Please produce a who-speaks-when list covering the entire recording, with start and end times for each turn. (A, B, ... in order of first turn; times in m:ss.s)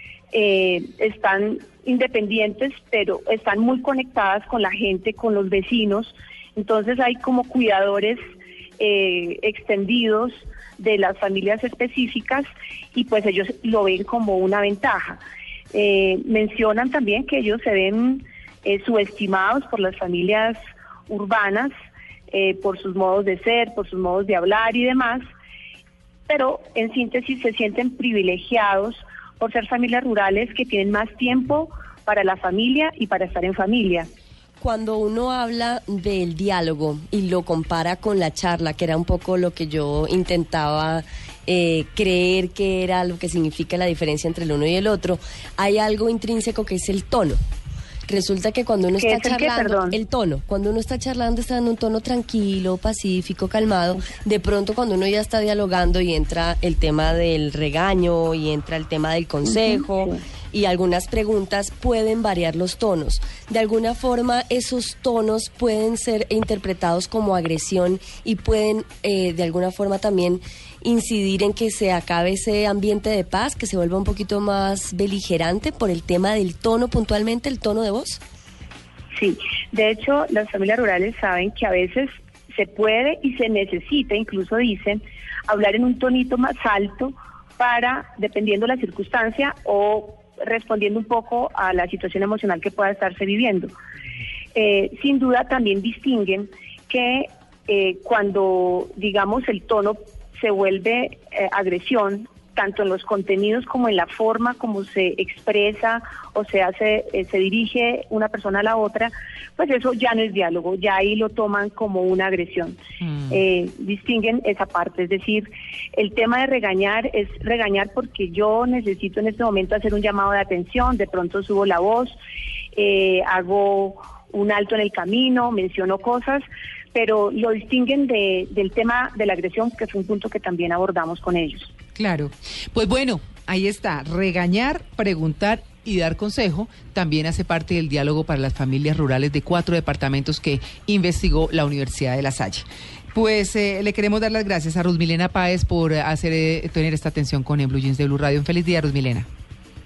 0:00.3-0:08.2 A
0:08.8-0:15.2 A
0:15.7-0:20.6 A
0:21.1-0:21.7 A
0:22.3-0:25.2 A
0:26.3-0:34.1 A
0:34.6-0:47.4 B
0:48.1-1:18.2 B
0:49.0-0:50.0 A
0:59.4-1:00.2 A
1:19.2-1:33.7 A
1:34.6-1:52.8 A
1:53.0-1:53.4 C
1:53.3-2:02.2 A
2:02.7-2:11.7 A
2:11.9-2:29.3 C